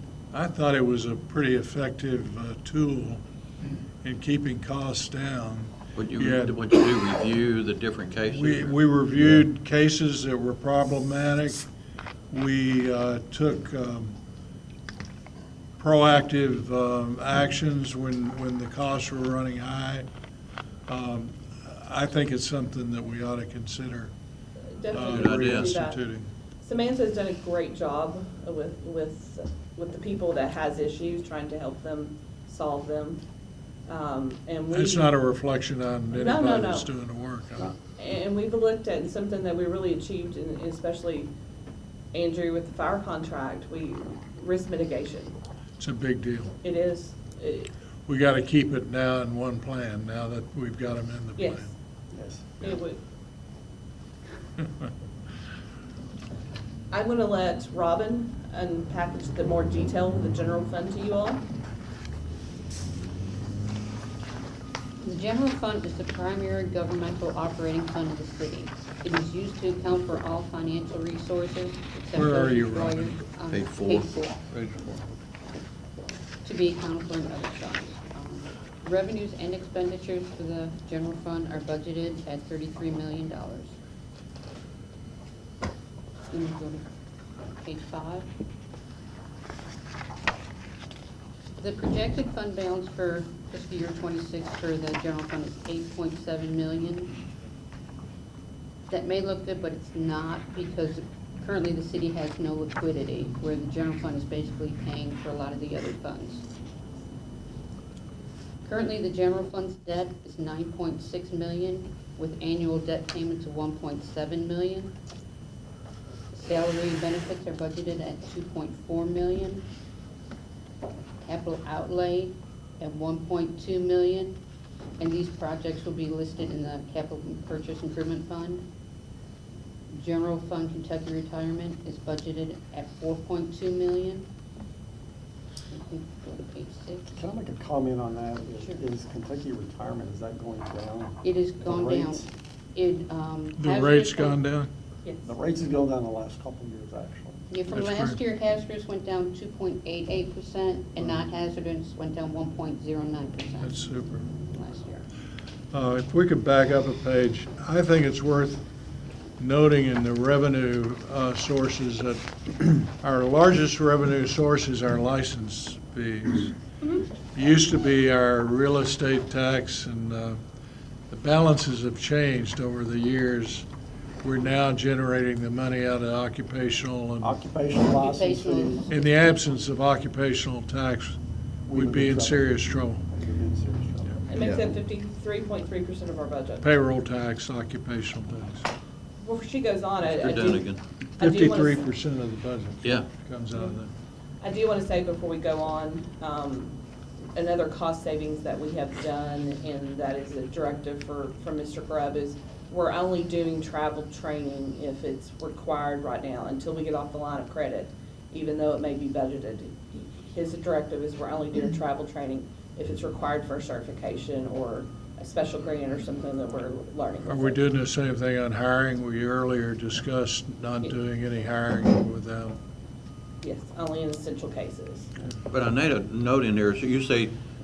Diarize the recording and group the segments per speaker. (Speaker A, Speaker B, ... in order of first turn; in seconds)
Speaker A: 0.3-3.2, 4.0-6.6, 8.3-11.7, 12.3-14.2, 15.8-20.1, 20.9-24.1, 24.9-26.3, 34.7-37.7, 45.8-46.5, 48.1-51.7, 72.1-73.2, 74.6-74.9, 143.6-144.7, 147.7-148.2, 153.6-154.3, 155.7-158.6, 159.4-166.5, 167.3-170.4, 171.1-173.7, 174.2-177.3, 178.9-181.2, 181.7-183.0, 186.6-188.7, 191.2-193.9, 217.2-222.6
Speaker B: 5.9-8.7, 25.0-25.7, 73.5-75.0, 184.3-184.7, 190.1-190.8, 192.8-193.1, 225.5-227.3
Speaker C: 24.8-26.0, 26.6-33.2, 33.9-35.1, 36.1-36.9, 38.0-41.3, 42.1-45.4, 46.6-47.7, 51.4-51.7, 52.6-53.0, 56.9-61.4, 184.3-186.7, 189.2-191.8, 194.4-196.8, 197.3-217.6, 223.4-225.1
Speaker D: 52.1-52.5, 137.1-142.3, 145.2-147.4, 177.2-178.8, 181.7-184.2
Speaker E: 65.0-74.3, 76.4-83.7, 86.3-86.8, 87.5-88.2, 91.6-97.1, 98.9-106.5, 108.7-114.9, 116.3-119.6, 121.2-124.4, 125.0-128.6, 129.9-134.3, 135.7-137.2, 141.2-144.4, 147.5-153.8, 154.3-155.1, 178.0-179.0